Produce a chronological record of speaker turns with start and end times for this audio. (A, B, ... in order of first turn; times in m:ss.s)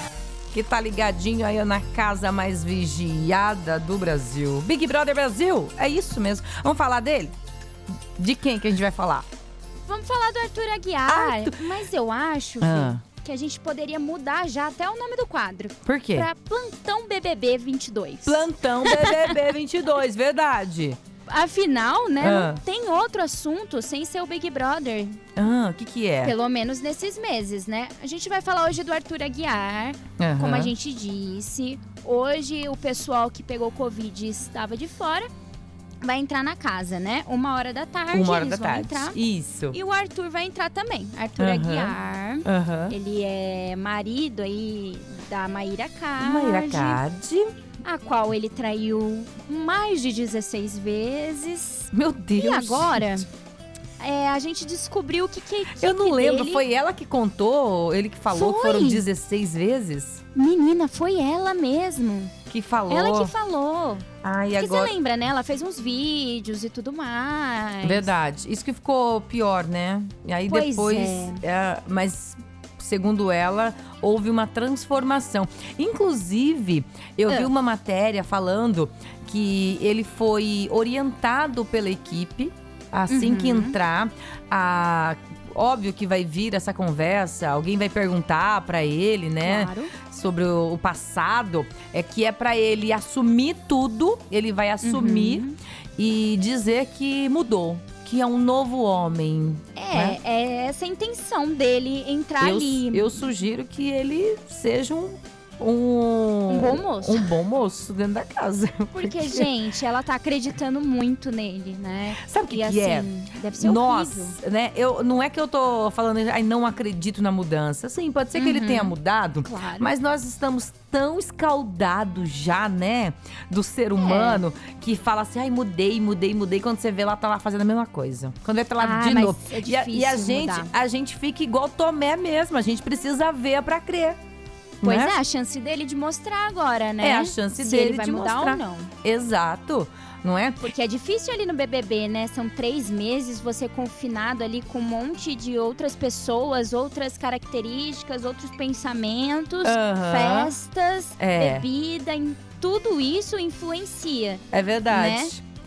0:00.5-0:07.3 A
0:08.2-0:09.3 A
0:09.9-0:19.4 B
0:11.1-0:11.6 A
0:12.6-0:13.0 A
0:15.8-0:16.3 A
0:18.2-0:21.0 A
0:21.3-0:25.2 B
0:22.2-0:22.6 A
0:25.4-0:26.4 A
0:26.2-0:35.3 B
0:30.2-0:30.7 A
0:36.0-0:39.2 B
0:38.1-0:39.8 A
0:39.7-0:47.0 B
0:41.4-0:43.0 A
0:46.2-0:47.5 A
0:47.8-0:53.3 B
0:51.9-0:53.3 A
0:54.0-0:56.6 B
0:55.8-1:00.2 A
0:58.3-0:59.1 B
1:00.4-1:02.3 B
1:02.5-1:03.3 A
1:02.9-1:08.1 B
1:04.2-1:04.9 A
1:07.8-1:40.2 A
1:10.5-1:11.4 B
1:23.1-1:23.8 B
1:29.4-1:29.9 B
1:34.8-1:35.6 B
1:39.8-1:43.3 B
1:42.4-1:49.5 A
1:46.5-1:47.4 B
1:48.9-1:54.4 B
1:52.2-2:14.2 A
1:58.4-1:59.9 B
2:04.0-2:04.4 B
2:08.8-2:10.7 B
2:14.8-2:15.2 A
2:14.8-2:18.9 B
2:17.0-2:20.6 A
2:20.6-2:35.3 B
2:29.6-2:30.5 A
2:31.2-2:31.7 A
2:34.5-2:35.4 A